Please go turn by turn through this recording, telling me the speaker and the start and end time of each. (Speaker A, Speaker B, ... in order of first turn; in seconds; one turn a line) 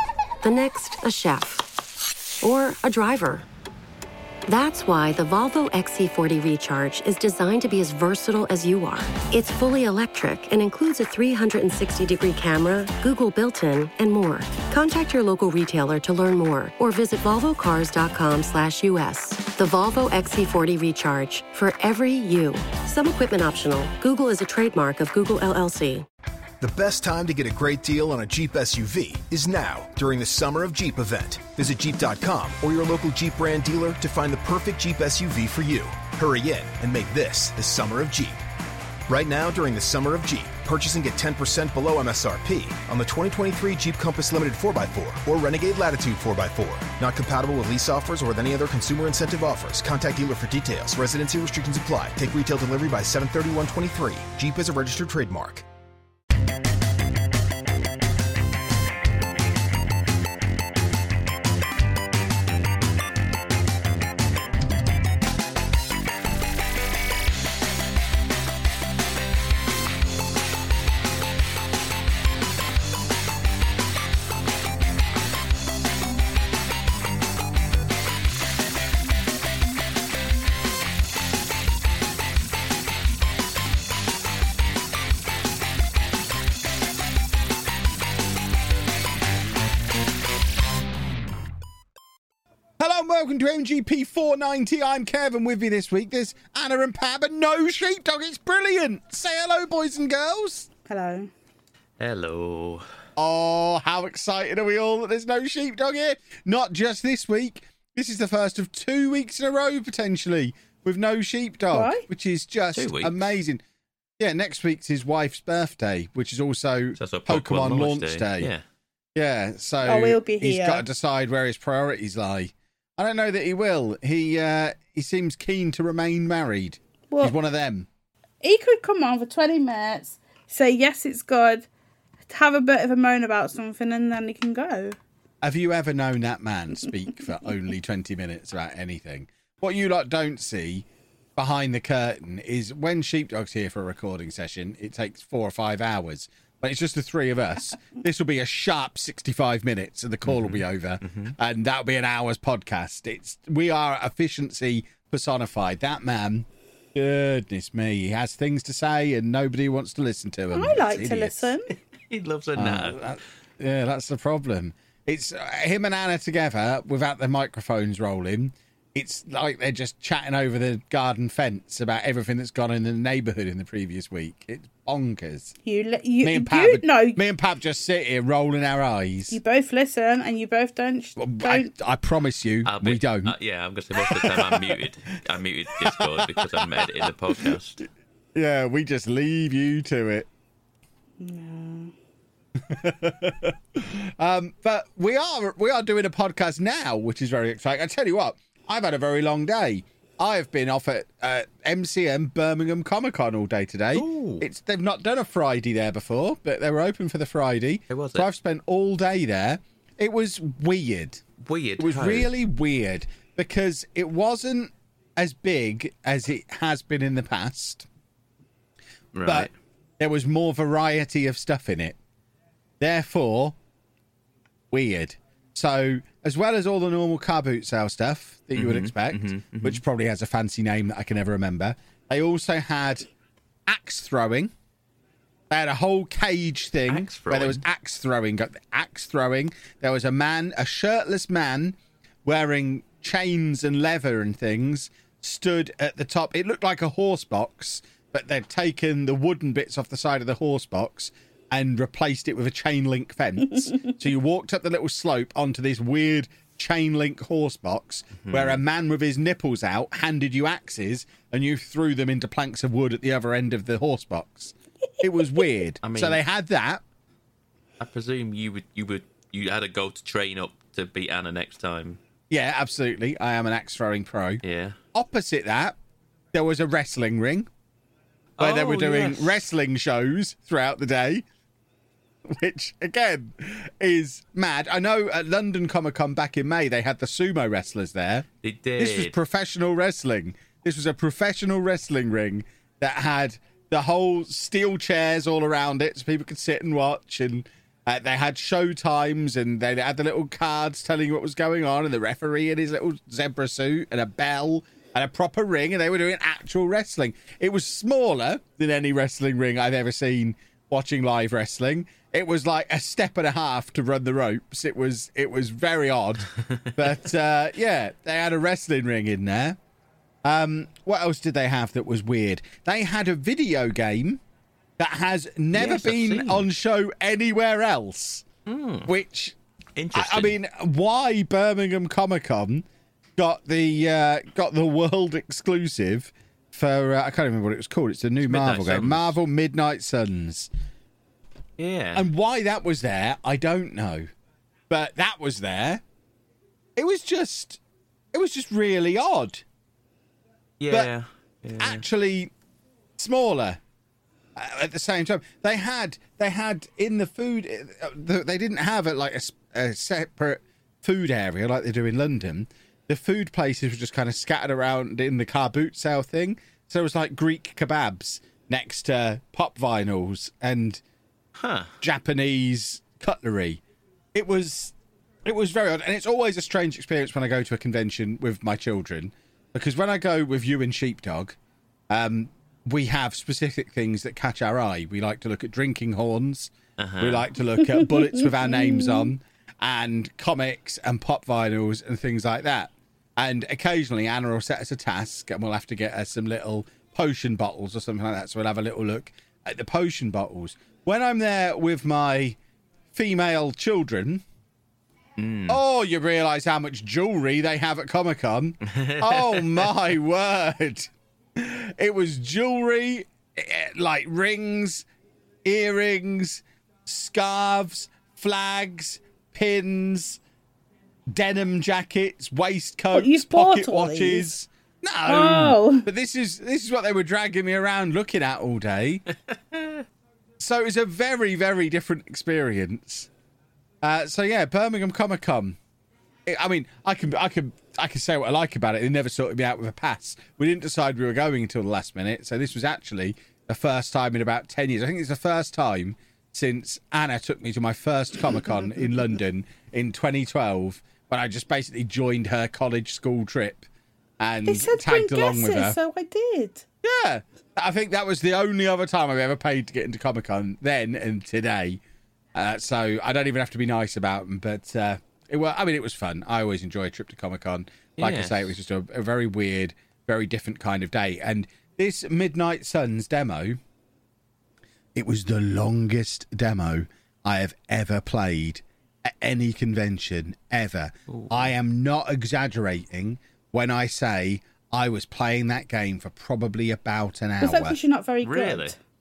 Speaker A: 0.4-1.7
Speaker A: 2.4-3.4
Speaker A: 4.5-26.1
Speaker B: 26.6-38.4
Speaker B: 39.1-55.6
Speaker C: 92.8-100.7
Speaker D: 100.9-101.3
Speaker E: 102.0-102.9
Speaker C: 103.2-113.6
Speaker D: 111.7-112.1
Speaker E: 112.8-113.1
Speaker C: 114.2-118.5
Speaker E: 117.0-118.6
Speaker C: 119.2-127.9
Speaker D: 119.8-120.8
Speaker D: 128.4-131.7
Speaker D: 132.3-135.0
Speaker C: 135.4-161.5
Speaker E: 150.2-151.3
Speaker D: 160.5-161.7
Speaker E: 162.1-163.1
Speaker C: 162.6-175.5
Speaker D: 175.6-177.2
Speaker C: 176.2-179.4
Speaker D: 179.3-181.7
Speaker C: 181.2-183.3
Speaker E: 182.6-187.8
Speaker C: 183.9-184.8
Speaker C: 185.8-187.6
Speaker C: 188.3-190.3
Speaker D: 191.2-191.9
Speaker C: 192.6-211.2
Speaker E: 203.9-204.4
Speaker E: 207.9-208.3
Speaker E: 211.4-212.3
Speaker C: 211.8-217.9
Speaker E: 219.1-219.5
Speaker C: 220.0-222.0
Speaker C: 222.8-223.6
Speaker C: 224.7-233.1
Speaker E: 228.5-229.8
Speaker C: 233.7-234.5
Speaker C: 235.5-266.8
Speaker E: 236.9-237.6
Speaker E: 258.2-258.6
Speaker E: 265.8-266.2
Speaker E: 267.8-272.0
Speaker C: 272.3-274.4
Speaker E: 274.4-274.8
Speaker C: 274.9-275.8
Speaker C: 276.3-277.5
Speaker E: 278.4-279.4
Speaker C: 278.4-281.2
Speaker C: 282.3-288.3
Speaker E: 288.4-289.1
Speaker C: 288.8-319.6
Speaker C: 320.2-324.2
Speaker C: 324.8-328.2
Speaker E: 325.5-326.5
Speaker E: 328.5-328.9
Speaker C: 328.9-329.4
Speaker E: 329.8-330.4
Speaker C: 329.9-332.6
Speaker C: 333.2-340.5
Speaker E: 338.2-339.2
Speaker E: 341.6-342.1
Speaker C: 341.9-344.1
Speaker C: 344.7-345.8
Speaker C: 346.8-347.6
Speaker C: 348.1-349.4
Speaker E: 350.6-351.8
Speaker C: 351.6-352.3
Speaker C: 353.0-353.6
Speaker C: 354.4-370.8
Speaker E: 371.4-371.8
Speaker C: 371.8-373.6
Speaker C: 374.1-374.7
Speaker C: 375.2-381.4
Speaker C: 381.9-402.4
Speaker E: 386.8-387.3
Speaker D: 387.8-389.1
Speaker C: 402.9-404.2
Speaker E: 405.2-405.6
Speaker C: 405.5-414.9
Speaker E: 408.7-409.7
Speaker C: 415.4-420.2
Speaker C: 421.1-429.1
Speaker D: 422.9-424.3
Speaker D: 425.1-425.9
Speaker E: 429.5-429.8
Speaker C: 430.4-433.1
Speaker C: 433.8-435.6
Speaker C: 436.2-453.7
Speaker C: 454.2-455.8
Speaker D: 454.5-456.6
Speaker C: 456.8-461.8
Speaker C: 462.4-473.6
Speaker E: 468.0-468.5
Speaker C: 474.9-487.8
Speaker E: 481.1-481.5
Speaker D: 487.4-488.8
Speaker E: 488.2-488.8